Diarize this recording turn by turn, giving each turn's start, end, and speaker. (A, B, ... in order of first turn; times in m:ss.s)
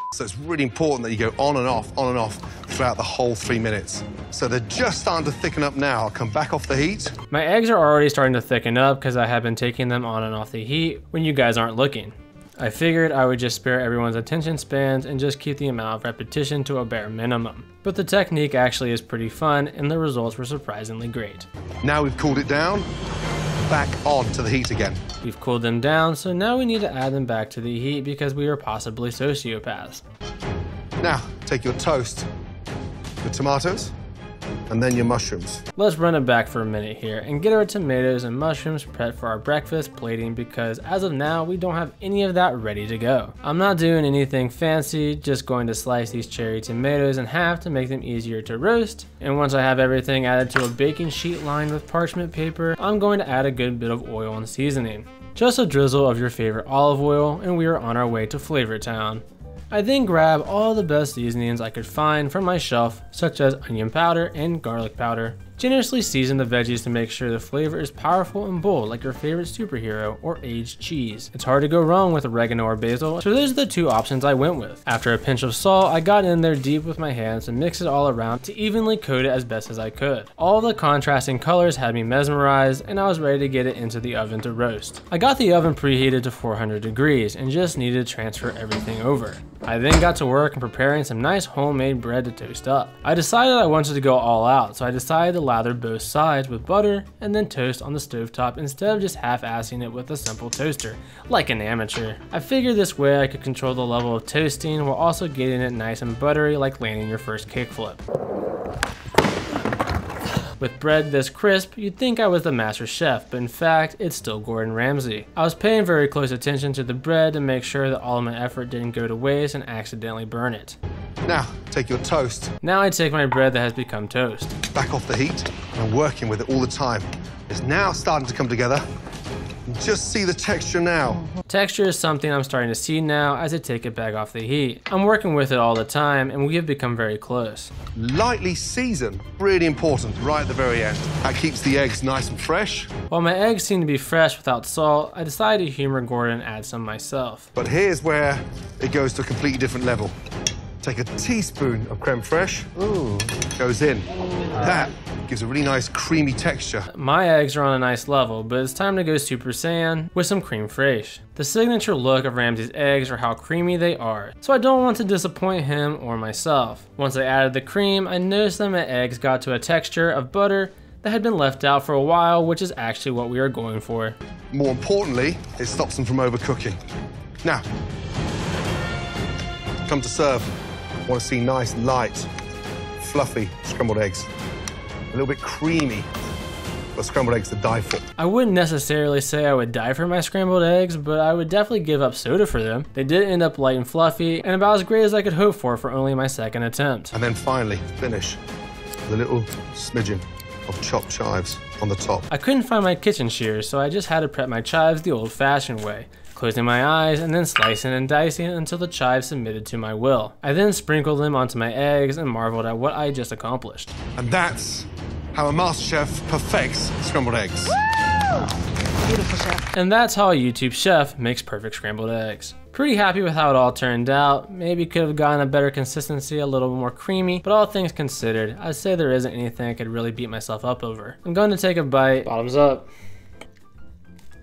0:00.1-0:07.1 A
0:07.3-0:21.5 B
0:21.8-0:22.9 A
0:23.6-0:25.0 A
0:25.2-0:30.0 B
0:31.0-0:32.3 A
0:33.2-0:33.9 A
0:34.7-0:35.6 A
0:35.8-1:48.0 B
1:50.6-2:00.8 B
2:01.2-2:02.5 A
2:02.6-2:04.6 B
2:04.7-2:08.8 A
2:09.7-2:11.3 A
2:11.5-2:17.7 B
2:17.9-2:22.9 A
2:23.1-2:27.5 B
2:27.6-2:30.1 A
2:30.8-2:36.9 A
2:36.9-2:54.2 B
2:54.5-2:56.8 A
2:59.8-3:00.6 A
3:01.1-3:02.3 A
3:03.0-3:04.3 A
3:05.1-3:06.1 A
3:07.0-3:08.0 A
3:08.2-3:17.1 B
3:17.1-3:18.4 A
3:19.1-3:22.3 A
3:22.3-3:33.9 B
3:34.2-3:37.8 A
3:39.2-3:52.9 B